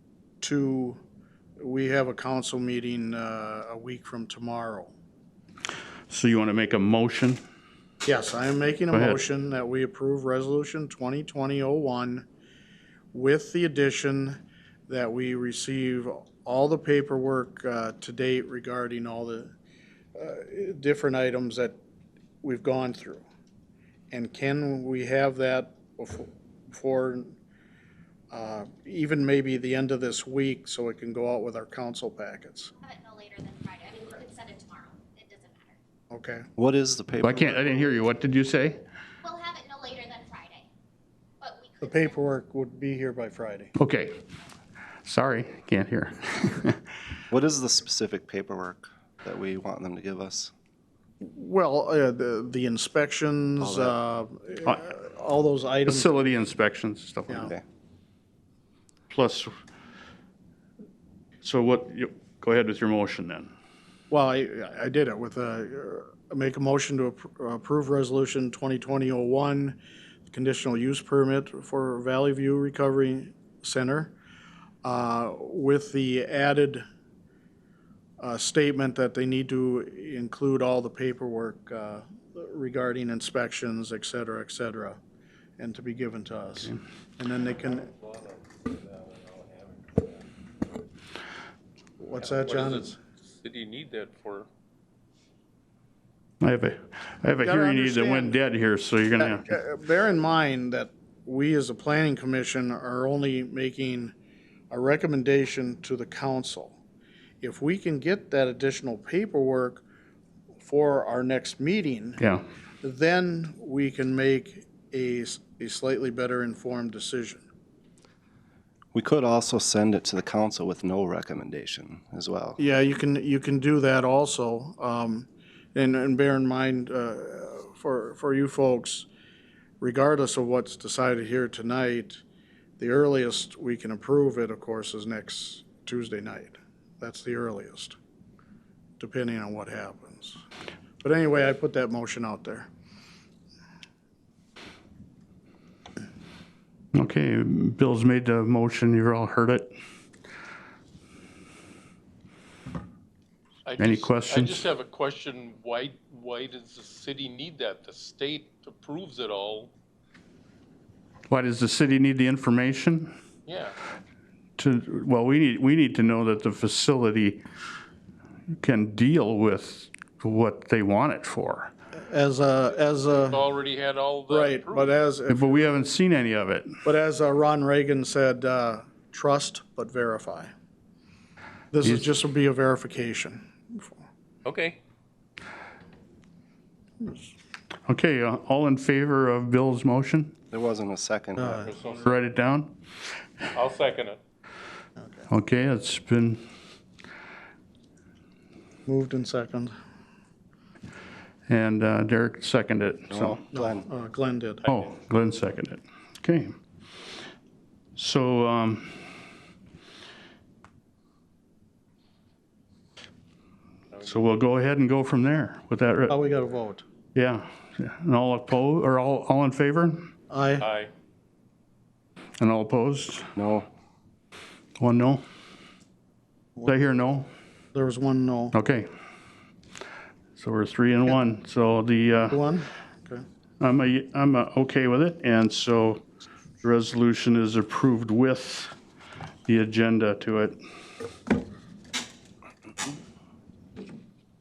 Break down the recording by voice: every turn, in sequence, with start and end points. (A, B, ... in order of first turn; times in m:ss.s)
0:00.4-0:01.0 A
0:01.6-0:04.9 A
0:06.1-0:07.4 B
0:08.0-0:12.3 A
0:08.9-0:09.2 B
0:13.1-0:19.5 A
0:20.1-0:21.8 A
0:22.4-0:23.2 A
0:24.1-0:27.4 A
0:28.3-0:32.7 A
0:32.8-0:35.8 C
0:36.1-0:36.4 A
0:36.6-0:37.8 D
0:37.2-0:38.8 B
0:39.2-0:40.7 C
0:41.4-0:42.2 C
0:41.8-0:43.7 A
0:43.8-0:44.2 B
0:45.0-0:46.8 B
0:47.3-0:50.5 D
0:51.2-0:56.3 A
0:55.8-0:57.5 B
0:59.1-0:59.5 B
1:01.4-1:03.5 B
1:04.1-1:14.1 A
1:14.8-1:16.8 A
1:18.2-1:25.0 A
1:25.6-1:27.9 A
1:32.0-1:33.0 A
1:32.4-1:34.5 E
1:36.4-1:39.5 B
1:37.4-1:38.4 A
1:39.2-1:44.1 A
1:44.7-1:46.8 A
1:47.4-1:49.8 A
1:50.6-1:52.2 A
1:52.8-1:57.4 A
1:58.9-2:02.6 D
2:02.6-2:09.1 A
2:09.8-2:12.2 A
2:12.8-2:18.0 A
2:19.0-2:20.4 A
2:21.0-2:22.7 A
2:26.9-2:29.7 B
2:33.6-2:39.7 E
2:33.8-2:34.7 B
2:41.3-2:43.1 B
2:43.5-2:43.8 E
2:44.6-2:47.4 B
2:48.6-2:51.7 B
2:51.9-2:53.4 A
2:53.2-2:55.0 E
2:54.3-2:55.7 A
2:55.3-2:56.7 B
2:56.8-3:00.5 A
3:01.7-3:04.0 A
3:01.8-3:02.1 B
3:04.4-3:04.8 E
3:07.0-3:07.3 A
3:07.9-3:10.3 B
3:10.5-3:11.7 D
3:11.4-3:11.8 A
3:11.6-3:12.2 E
3:11.9-3:12.8 B
3:13.5-3:14.2 E
3:15.0-3:15.2 A
3:15.3-3:16.4 B
3:18.9-3:19.8 A
3:21.5-3:23.4 B
3:23.1-3:23.8 D
3:23.5-3:24.6 A
3:24.6-3:26.5 B
3:28.0-3:28.9 B
3:33.9-3:34.2 E
3:34.0-3:36.2 B
3:36.1-3:36.8 A
3:37.1-3:40.1 B
3:40.3-3:40.7 A
3:40.6-3:40.9 E
3:42.4-3:43.3 B
3:43.4-3:43.7 D
3:44.8-3:45.2 B
3:46.6-3:47.3 B
3:47.7-3:48.5 A
3:48.5-3:48.9 B
3:50.4-3:52.4 B
3:52.3-3:53.2 A
3:53.6-3:56.0 B
3:56.6-3:58.7 B
3:59.5-4:00.6 B